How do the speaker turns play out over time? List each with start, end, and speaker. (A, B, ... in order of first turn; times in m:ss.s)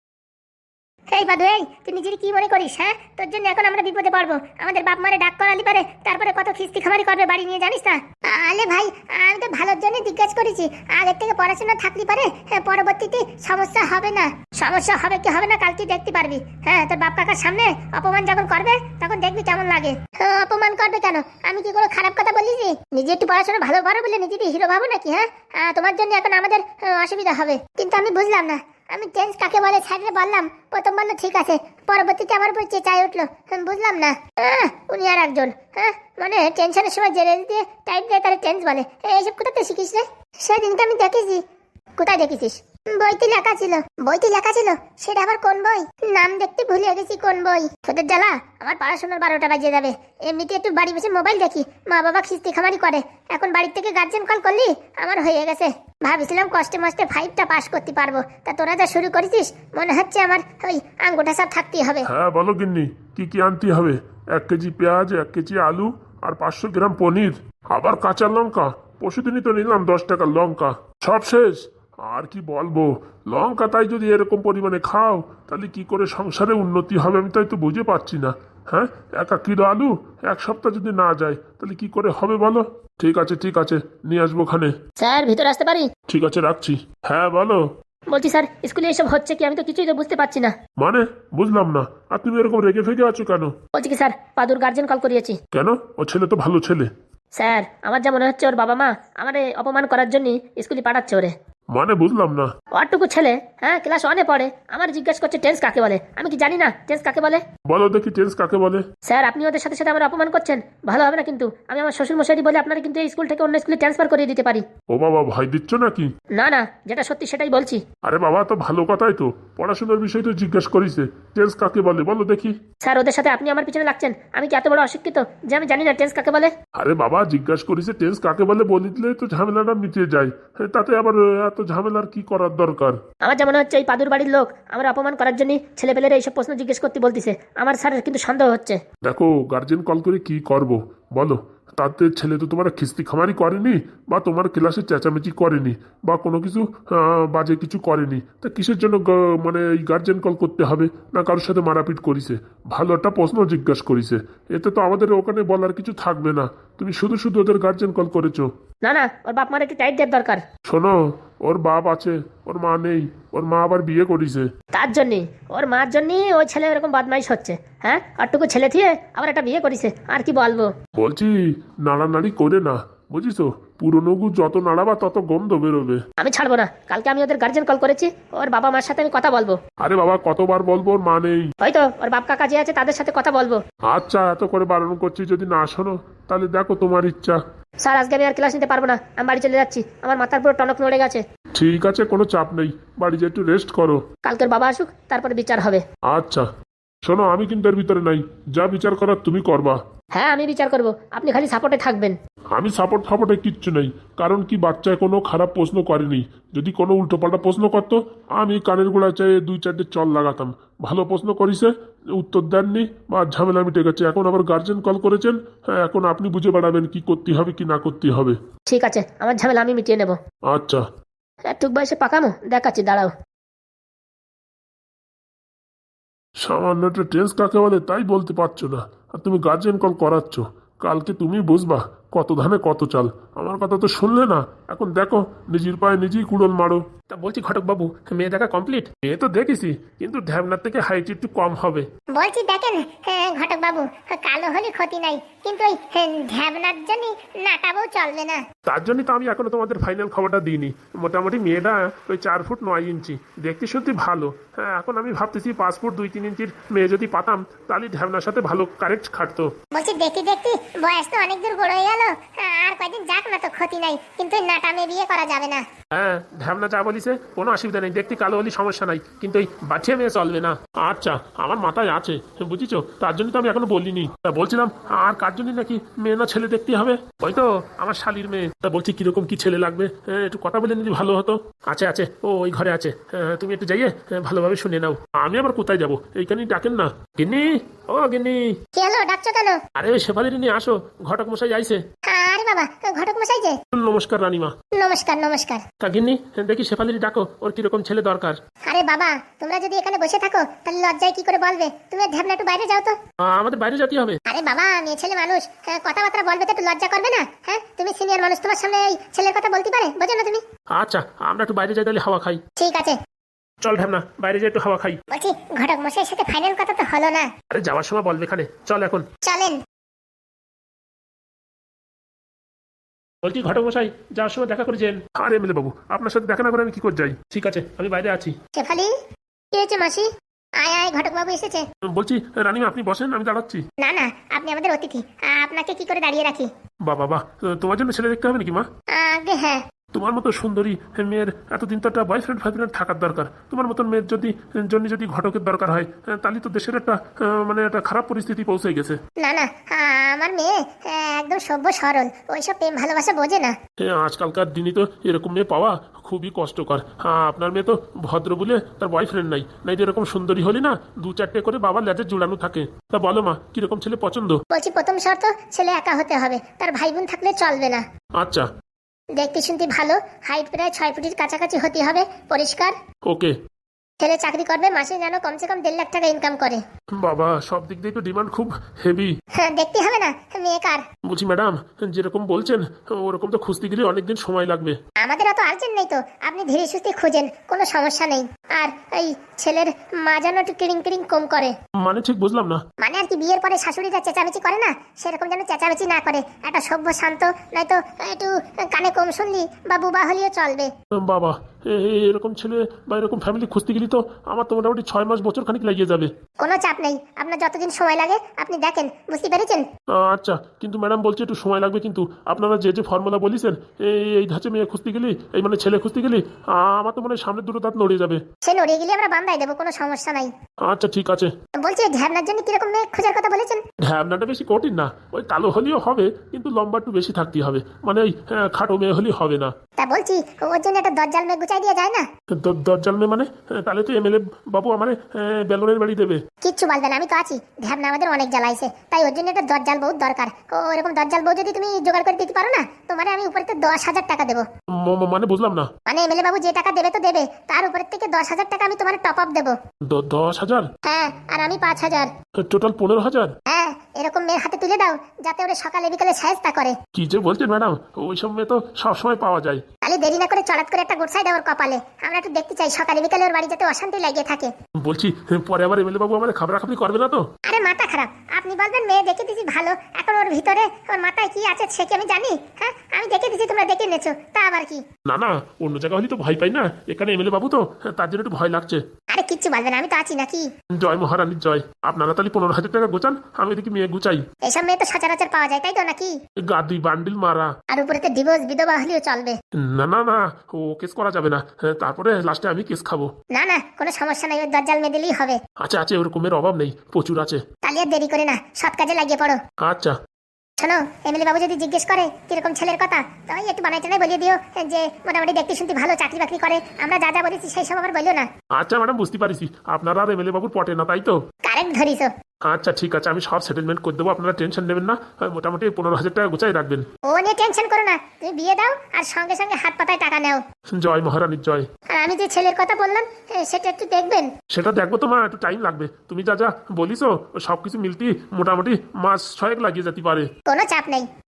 0:01.1-0:41.4 A
0:42.0-1:02.1 A
1:02.0-1:24.7 B
1:25.0-1:25.9 C
1:26.1-1:27.6 B
1:28.1-1:30.5 C
1:30.8-1:33.5 B
1:33.7-1:35.4 C
1:35.5-1:36.9 B
1:37.4-1:41.3 C
1:41.7-1:42.5 B
1:42.8-1:47.4 C
1:47.7-1:48.8 B
1:49.1-1:54.6 C
1:54.9-1:56.1 B
1:56.4-1:57.8 C
1:58.0-2:02.6 B
2:02.8-2:06.5 C
2:06.8-2:13.0 B
2:13.2-2:18.8 C
2:19.0-2:38.5 B
2:38.8-2:40.4 C
2:40.7-2:44.5 B
2:44.7-2:50.7 C
2:51.0-2:56.0 B
2:56.2-2:59.6 C
2:59.8-3:01.5 B
3:01.6-3:03.6 C
3:03.9-3:07.4 B
3:07.8-3:11.2 C
3:11.6-3:14.0 B
3:14.2-3:15.8 C
3:16.1-3:16.5 B
3:17.0-3:19.8 B
3:20.2-3:22.2 C
3:22.6-3:38.4 B
3:38.7-3:40.2 C
3:40.5-3:40.8 B
3:41.5-3:43.1 C
3:46.4-4:01.9 B
4:02.2-4:08.4 A
4:08.7-4:19.5 B
4:19.7-4:25.6 A
4:25.9-4:48.6 B
4:48.8-4:49.6 A
4:49.8-4:51.8 B
4:52.1-4:53.6 A
4:53.7-4:54.6 B
4:54.8-4:55.6 A
4:55.8-4:58.4 B
4:58.7-5:03.0 A
5:03.2-5:04.2 B
5:04.3-5:10.4 A
5:10.8-5:12.4 B
5:12.6-5:13.0 A
5:13.6-5:15.0 B
5:15.1-5:17.3 A
5:17.5-5:19.1 B
5:19.2-5:19.6 A
5:23.2-5:28.4 B
5:28.6-5:28.9 A
5:29.5-5:30.1 A
5:30.6-5:31.6 A
5:31.9-5:33.6 B
5:33.8-5:36.5 A
5:36.8-5:38.7 B
5:38.9-5:39.6 A
5:39.9-5:49.0 B
5:49.2-5:53.5 A
5:53.8-6:04.4 B
6:04.5-6:07.8 A
6:08.2-6:08.5 B
6:09.2-6:12.7 A
6:13.1-6:13.4 B
6:14.0-6:16.6 A
6:17.0-6:19.2 B
6:19.4-6:20.8 A
6:21.1-6:24.8 B
6:25.0-6:31.5 A
6:31.8-6:32.6 B
6:32.8-6:40.7 A
6:40.9-6:46.1 B
6:46.4-6:49.6 A
6:50.0-6:58.2 B
6:58.4-7:00.3 A
7:00.6-7:01.3 B
7:01.6-7:03.6 A
7:03.8-7:09.5 B
7:09.8-7:12.1 A
7:12.3-7:16.2 B
7:16.4-7:24.5 A
7:24.8-7:25.7 B
7:25.9-7:29.6 A
7:29.9-7:30.7 B
7:30.8-7:32.1 A
7:32.4-7:33.3 B
7:33.5-7:36.8 A
7:37.0-7:39.6 B
7:39.8-7:44.5 A
7:44.8-7:47.3 B
7:47.5-7:54.8 A
7:55.1-7:58.8 B
7:59.1-8:00.5 A
8:00.8-8:04.2 B
8:04.4-8:06.1 A
8:06.4-8:07.5 B
8:07.7-8:09.4 A
8:09.6-8:13.1 B
8:13.3-8:15.4 A
8:15.6-8:17.4 B
8:17.6-8:19.4 A
8:19.6-8:20.0 B
8:20.6-8:28.3 A
8:28.5-8:31.2 B
8:31.4-8:32.1 A
8:32.4-8:36.8 B
8:37.1-8:40.4 A
8:40.7-8:41.7 B
8:41.9-8:44.3 A
8:44.5-8:50.3 B
8:50.5-8:51.1 A